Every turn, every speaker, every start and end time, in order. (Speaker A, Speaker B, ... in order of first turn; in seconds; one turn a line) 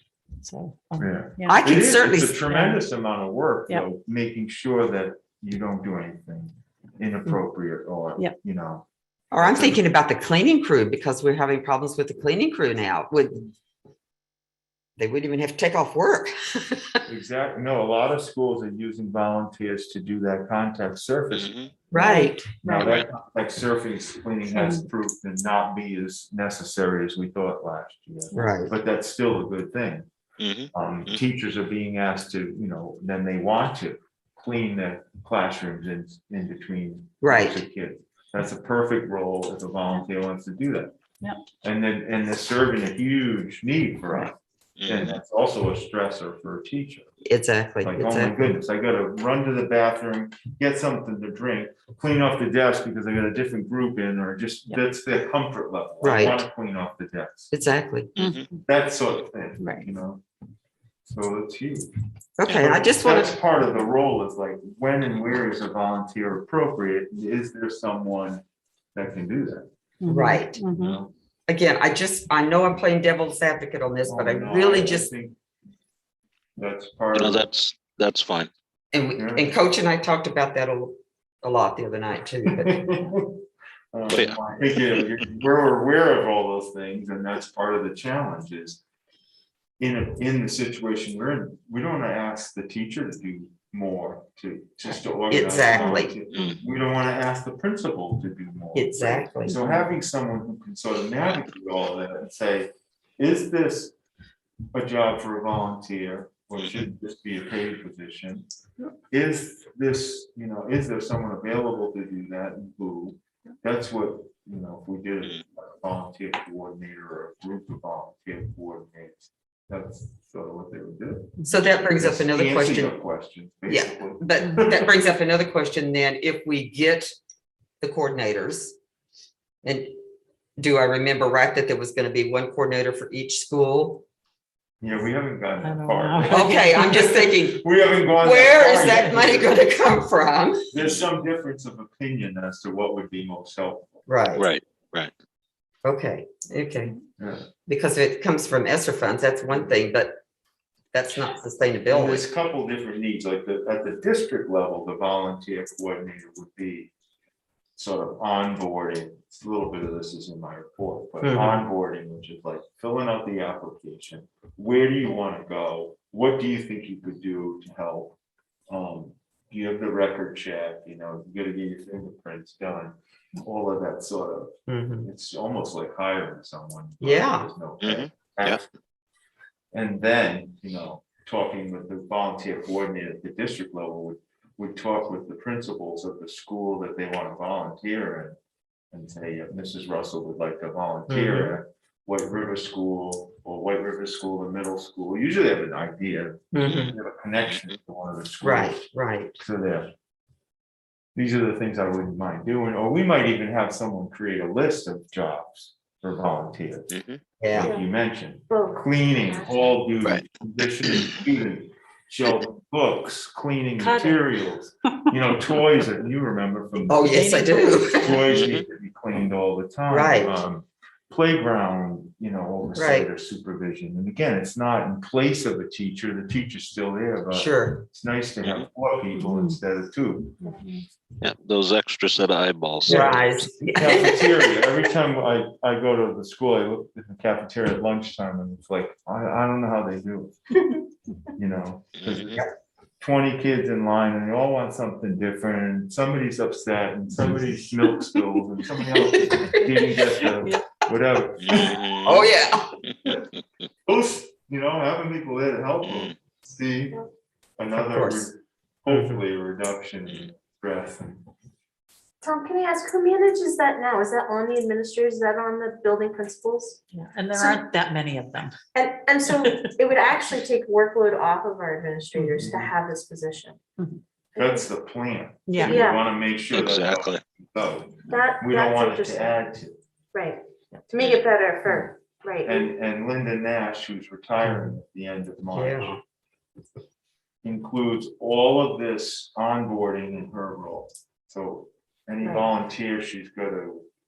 Speaker A: 0.4-1.6
Speaker B: 1.0-8.8
Speaker C: 1.5-2.4
Speaker A: 2.5-2.8
Speaker C: 9.3-13.5
Speaker B: 9.4-9.8
Speaker C: 15.0-17.0
Speaker B: 17.1-21.9
Speaker D: 21.3-21.7
Speaker C: 21.9-22.5
Speaker A: 21.9-23.0
Speaker B: 22.6-30.1
Speaker A: 24.5-24.9
Speaker C: 28.3-28.7
Speaker D: 30.4-31.2
Speaker B: 30.7-40.9
Speaker C: 37.2-37.6
Speaker B: 41.6-47.1
Speaker D: 44.8-45.2
Speaker C: 47.2-48.5
Speaker B: 47.8-57.5
Speaker C: 56.0-56.5
Speaker C: 57.5-58.1
Speaker D: 58.1-58.4
Speaker A: 58.2-58.6
Speaker B: 58.6-60.2
Speaker A: 59.6-59.9
Speaker B: 61.1-61.9
Speaker C: 62.4-63.4
Speaker B: 62.5-68.4
Speaker B: 68.9-69.7
Speaker A: 70.0-71.0
Speaker C: 70.1-70.6
Speaker B: 70.6-71.1
Speaker C: 71.5-75.1
Speaker B: 74.0-75.4
Speaker B: 76.6-77.5
Speaker D: 77.1-78.5
Speaker C: 78.9-82.8
Speaker B: 79.1-79.5
Speaker B: 82.5-88.8
Speaker D: 84.1-85.2
Speaker B: 89.8-103.9
Speaker C: 95.3-96.1
Speaker D: 96.3-96.6
Speaker C: 98.7-99.6
Speaker A: 99.5-99.9
Speaker B: 104.7-108.5
Speaker D: 106.6-106.8
Speaker B: 109.1-121.4
Speaker C: 121.5-123.0
Speaker B: 122.0-124.9
Speaker C: 123.7-127.1
Speaker C: 127.8-128.7
Speaker C: 129.6-130.0
Speaker C: 130.6-134.0
Speaker B: 134.8-139.7
Speaker A: 135.6-137.3
Speaker C: 136.2-140.7
Speaker B: 140.7-144.0
Speaker C: 144.1-144.4
Speaker D: 144.3-145.1
Speaker C: 145.8-146.9
Speaker B: 147.2-147.5
Speaker C: 147.7-150.2
Speaker C: 150.9-152.3
Speaker B: 151.9-156.9
Speaker B: 157.8-168.2
Speaker C: 161.2-161.6
Speaker B: 168.7-178.7
Speaker C: 174.7-175.1
Speaker C: 177.0-177.5
Speaker D: 177.8-178.6
Speaker B: 179.7-188.3
Speaker B: 188.9-198.8
Speaker C: 191.1-191.5
Speaker C: 196.5-196.9
Speaker D: 196.7-196.9
Speaker C: 198.4-199.3
Speaker B: 199.4-199.9
Speaker B: 201.1-206.9
Speaker D: 206.9-207.2
Speaker C: 207.4-207.7
Speaker B: 207.5-217.4
Speaker E: 207.6-207.9
Speaker E: 208.5-209.8
Speaker A: 213.8-214.3
Speaker A: 216.8-218.3
Speaker C: 216.9-218.2
Speaker B: 217.9-230.4
Speaker D: 218.3-218.6
Speaker C: 219.9-220.3
Speaker C: 222.7-223.1
Speaker C: 227.3-227.8
Speaker A: 229.2-229.6
Speaker A: 230.4-230.8
Speaker D: 231.2-233.4
Speaker C: 232.8-234.5
Speaker B: 232.9-233.2
Speaker B: 233.7-240.3
Speaker B: 241.3-242.4
Speaker D: 242.0-242.4
Speaker B: 243.0-251.8
Speaker C: 248.8-250.1
Speaker D: 251.4-252.3
Speaker C: 251.5-252.8
Speaker B: 253.8-257.0
Speaker D: 255.8-256.1
Speaker B: 257.6-261.2
Speaker C: 257.8-258.3
Speaker C: 258.9-259.2
Speaker E: 262.2-266.8
Speaker A: 266.9-268.5
Speaker E: 268.7-273.6
Speaker A: 269.3-269.6
Speaker A: 272.1-272.4
Speaker B: 272.4-272.7
Speaker E: 274.4-274.7
Speaker B: 274.4-279.8
Speaker A: 275.5-275.8
Speaker E: 275.6-276.0
Speaker D: 276.5-277.2
Speaker E: 278.1-279.4
Speaker E: 280.1-282.7
Speaker B: 282.4-286.0
Speaker C: 285.5-286.0
Speaker B: 287.4-293.8
Speaker E: 292.2-292.5